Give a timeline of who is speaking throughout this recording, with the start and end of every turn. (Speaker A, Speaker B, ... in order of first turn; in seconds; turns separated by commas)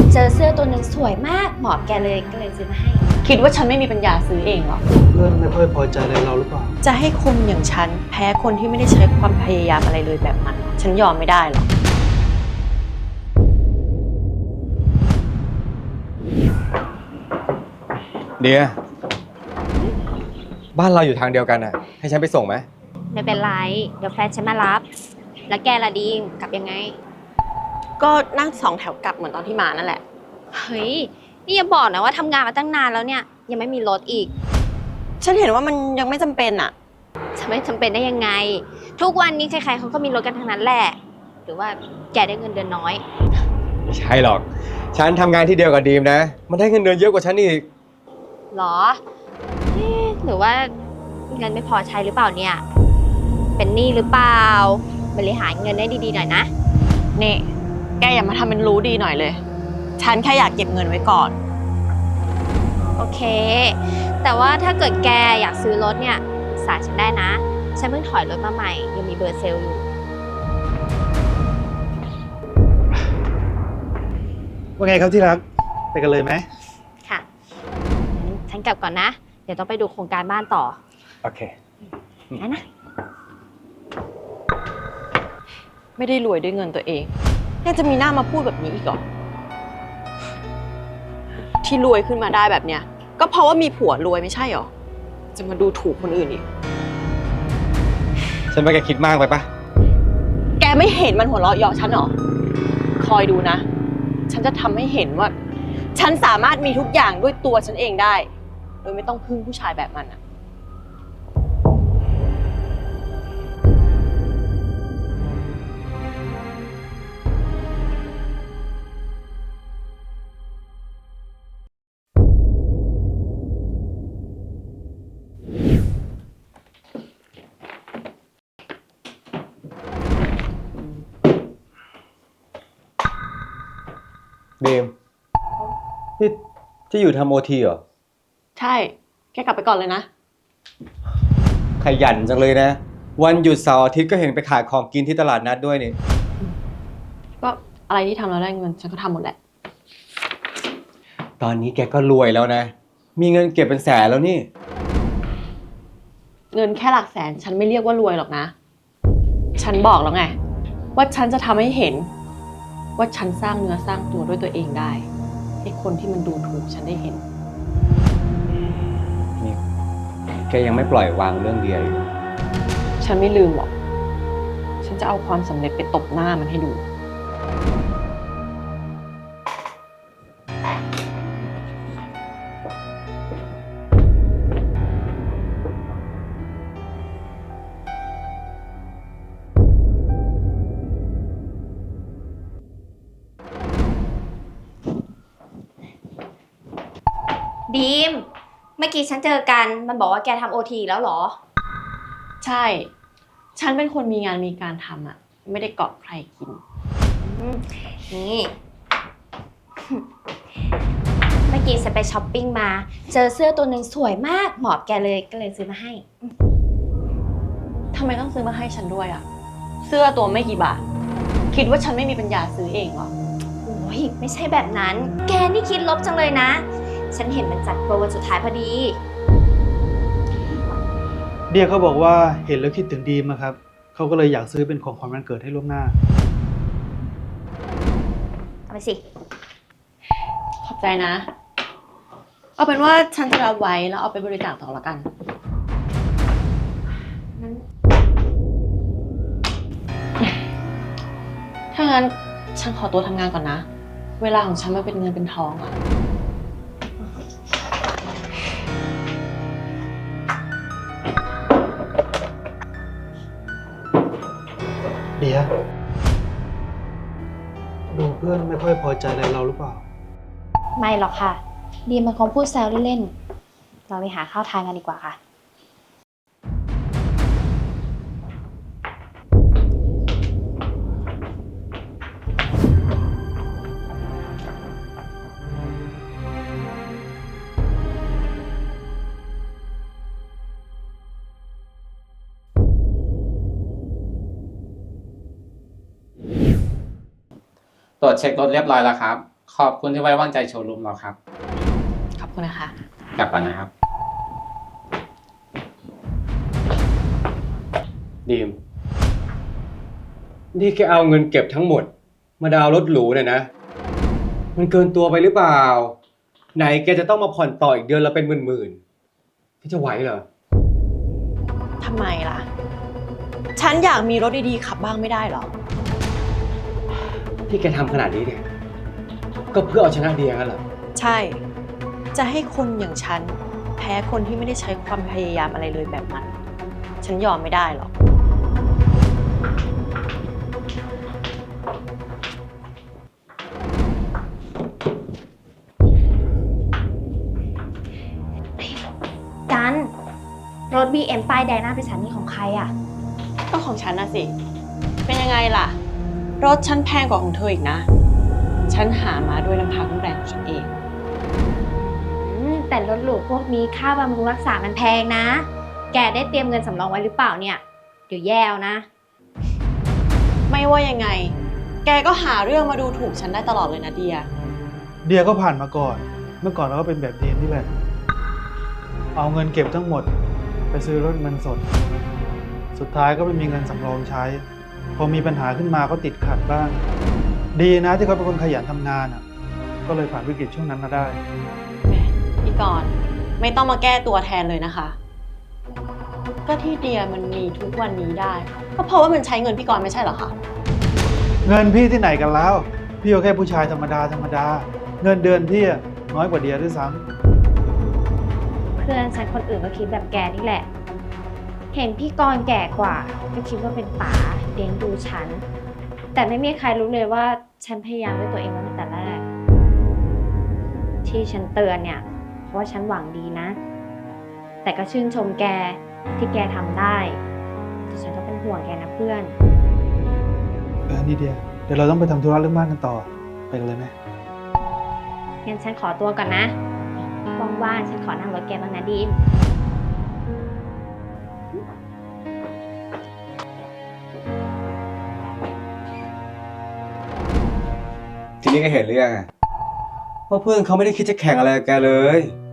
Speaker A: 0.1-3.3, Speaker B: 3.2-4.8, Speaker C: 5.0-6.7, Speaker B: 6.8-11.7, Speaker D: 18.4-18.8, Speaker D: 20.7-22.7, Speaker A: 23.1-24.8, Speaker A: 25.5-26.9, Speaker B: 28.0-30.0, Speaker A: 30.5-34.3, Speaker B: 35.2-36.7, Speaker A: 37.4-43.0, Speaker D: 43.9-47.6, Speaker A: 48.5-49.0, Speaker A: 49.7-50.7, Speaker A: 51.3-52.6, Speaker A: 53.6-56.5, Speaker B: 57.1-59.4, Speaker B: 60.0-61.4, Speaker A: 63.0-69.8, Speaker C: 74.8-76.4, Speaker A: 78.1-80.8, Speaker D: 81.2-81.5, Speaker A: 82.3-82.6, Speaker B: 86.0-87.1, Speaker B: 87.6-89.0, Speaker B: 91.6-94.7, Speaker B: 95.3-96.4, Speaker D: 98.5-99.5, Speaker B: 100.6-102.1, Speaker B: 103.0-103.6, Speaker B: 104.3-105.3, Speaker B: 105.9-108.3, Speaker B: 108.8-110.2, Speaker D: 134.6-134.9, Speaker D: 136.9-137.8, Speaker B: 138.6-140.1, Speaker D: 141.8-146.0, Speaker B: 147.4-149.3, Speaker D: 151.4-154.5, Speaker B: 156.5-158.5, Speaker B: 159.6-160.4, Speaker B: 160.9-162.1, Speaker B: 163.0-165.1, Speaker B: 165.6-167.2, Speaker D: 170.5-172.1, Speaker B: 173.0-173.7, Speaker B: 174.8-176.8, Speaker A: 197.7-198.2, Speaker A: 198.8-201.4, Speaker B: 202.4-202.9, Speaker B: 203.6-206.6, Speaker A: 207.0-208.5, Speaker A: 211.5-216.3, Speaker B: 217.9-219.2, Speaker B: 219.8-220.8, Speaker B: 221.5-223.1, Speaker A: 223.7-229.0, Speaker C: 231.5-235.9, Speaker A: 238.7-239.0, Speaker B: 240.6-241.3, Speaker B: 242.6-245.1, Speaker B: 251.7-253.7, Speaker B: 254.2-255.8, Speaker C: 265.2-265.5, Speaker C: 267.9-269.8, Speaker A: 270.8-273.1, Speaker A: 273.9-275.2, Speaker E: 298.0-301.2, Speaker B: 302.2-302.7, Speaker E: 303.2-303.7, Speaker D: 308.2-308.6, Speaker D: 310.5-313.5, Speaker D: 314.6-315.9, Speaker D: 316.6-318.8, Speaker D: 319.6-320.3, Speaker B: 321.8-322.4, Speaker B: 323.6-325.5, Speaker D: 327.5-328.4, Speaker D: 329.5-330.6, Speaker B: 330.9-331.4, Speaker B: 332.1-336.3, Speaker B: 337.0-337.9, Speaker A: 349.5-349.9, Speaker A: 350.7-352.7, Speaker B: 353.5-354.3, Speaker B: 355.1-355.8, Speaker B: 356.4-357.9, Speaker B: 358.7-360.7, Speaker A: 361.8-368.9, Speaker B: 370.5-374.3, Speaker C: 375.0-377.7, Speaker C: 379.1-380.1, Speaker C: 380.7-381.6, Speaker C: 382.7-384.4, Speaker C: 384.9-386.8, Speaker C: 387.5-389.2, Speaker C: 389.9-391.2, Speaker B: 391.8-395.0, Speaker B: 396.4-400.3, Speaker C: 401.4-407.0, Speaker A: 408.8-410.7, Speaker A: 411.7-415.4, Speaker A: 416.1-419.2, Speaker A: 421.0-423.6, Speaker A: 424.6-427.2, Speaker A: 427.9-429.3, Speaker C: 430.9-433.9, Speaker A: 435.4-436.6, Speaker A: 437.4-439.2, Speaker D: 448.4-449.3, Speaker D: 450.3-452.3